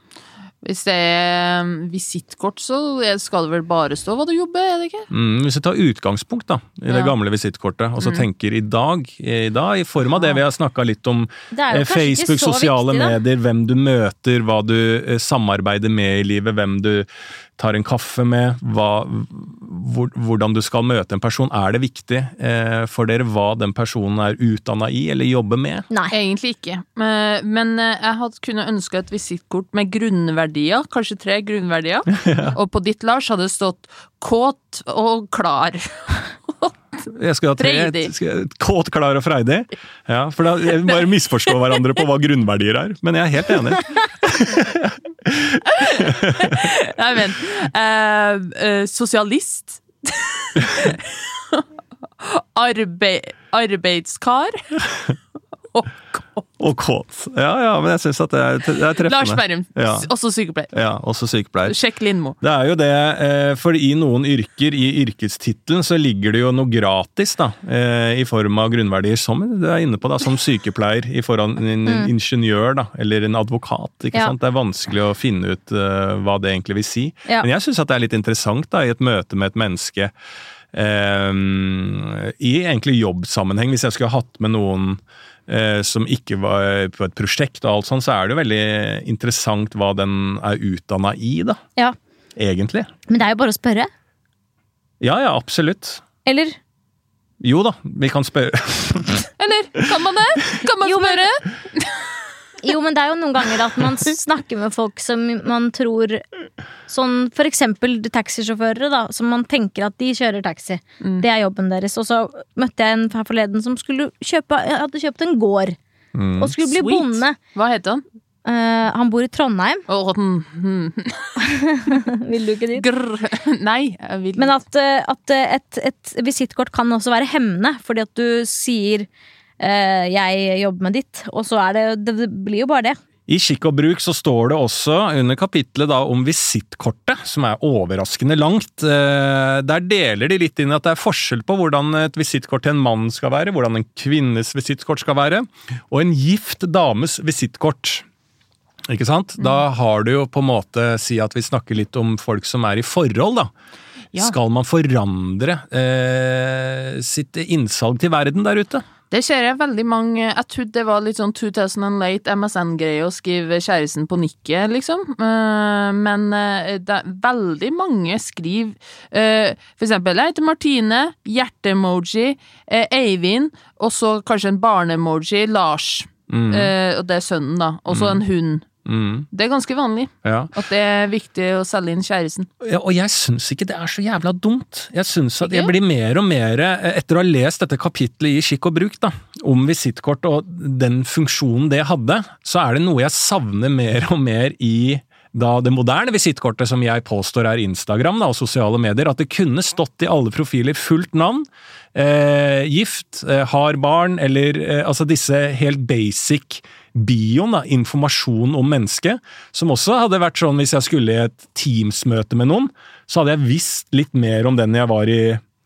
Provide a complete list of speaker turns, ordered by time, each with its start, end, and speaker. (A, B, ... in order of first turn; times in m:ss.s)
0:00.6-0:05.1 A
0:05.1-0:25.9 B
0:08.0-0:08.3 A
0:11.5-0:13.2 C
0:26.1-0:36.7 A
0:32.1-0:32.6 B
0:37.1-0:46.7 B
0:37.6-0:38.1 A
0:41.5-0:41.8 A
0:45.8-0:51.6 A
0:52.2-0:54.6 A
0:54.8-0:55.1 B
0:55.7-0:56.4 A
0:56.6-1:00.1 B
0:59.0-1:00.7 A
1:00.7-1:01.8 B
1:01.7-1:02.4 A
1:02.4-1:20.1 B
1:11.9-1:12.1 C
1:20.7-1:31.6 B
1:32.4-1:32.9 B
1:33.1-1:33.9 C
1:35.0-1:36.0 B
1:36.2-1:36.6 C
1:37.4-1:39.3 B
1:39.4-1:42.1 A
1:40.8-1:41.3 C
1:42.6-1:46.2 C
1:46.9-1:55.8 C
1:51.0-1:51.3 A
1:56.1-1:56.6 B
1:56.4-1:57.4 C
1:56.6-1:58.0 A
1:58.4-1:59.8 C
1:59.9-2:01.4 A
2:01.4-2:02.9 C
2:02.8-2:04.5 A
2:04.4-2:09.1 C
2:09.6-2:13.0 C
2:13.3-2:28.1 B
2:28.9-2:33.5 B
2:34.1-2:38.8 B
2:39.1-2:58.7 A
2:56.3-2:56.7 B
2:57.9-2:58.2 B
2:58.8-2:59.3 B
2:59.3-3:02.5 A
3:00.2-3:00.5 B
3:02.6-3:35.4 B
3:05.4-3:05.7 A